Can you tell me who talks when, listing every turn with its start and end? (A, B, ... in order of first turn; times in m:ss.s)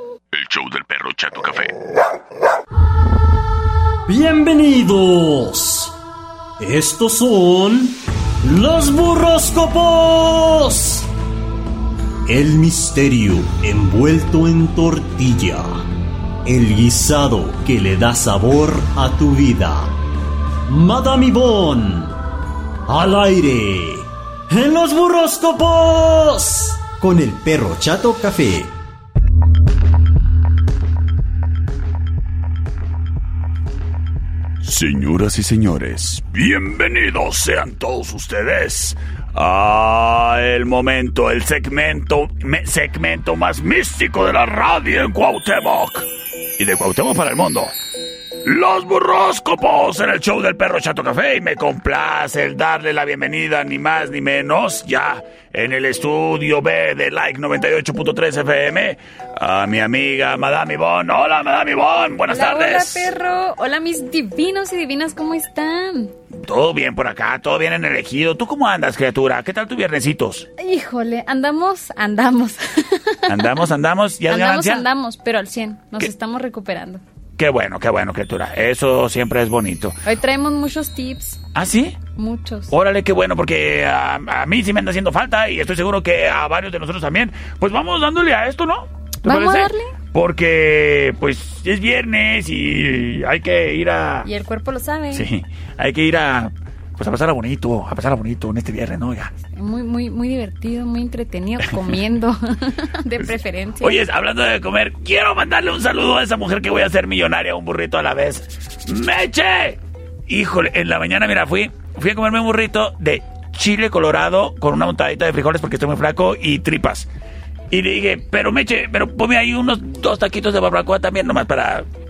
0:00.3-0:01.8 A
0:04.1-0:05.9 B
0:06.6-0:11.1 B
0:12.3-0:15.9 B
0:16.4-0:19.9 B
0:20.7-0:22.2 B
0:22.9-0:28.7 B
0:34.6-0:47.7 A
0:48.4-1:03.1 A
1:02.3-1:06.1 C
1:06.3-1:10.5 A
1:10.6-1:13.6 C
1:13.3-1:14.8 A
1:14.3-1:17.0 C
1:17.4-1:19.9 A
1:20.0-1:21.4 C
1:21.5-1:22.0 A
1:22.2-1:22.7 C
1:22.7-1:34.3 A
1:29.2-1:30.0 C
1:34.2-1:35.3 C
1:35.1-1:39.3 A
1:39.5-1:44.0 C
1:43.8-1:57.1 A
1:57.7-2:01.9 A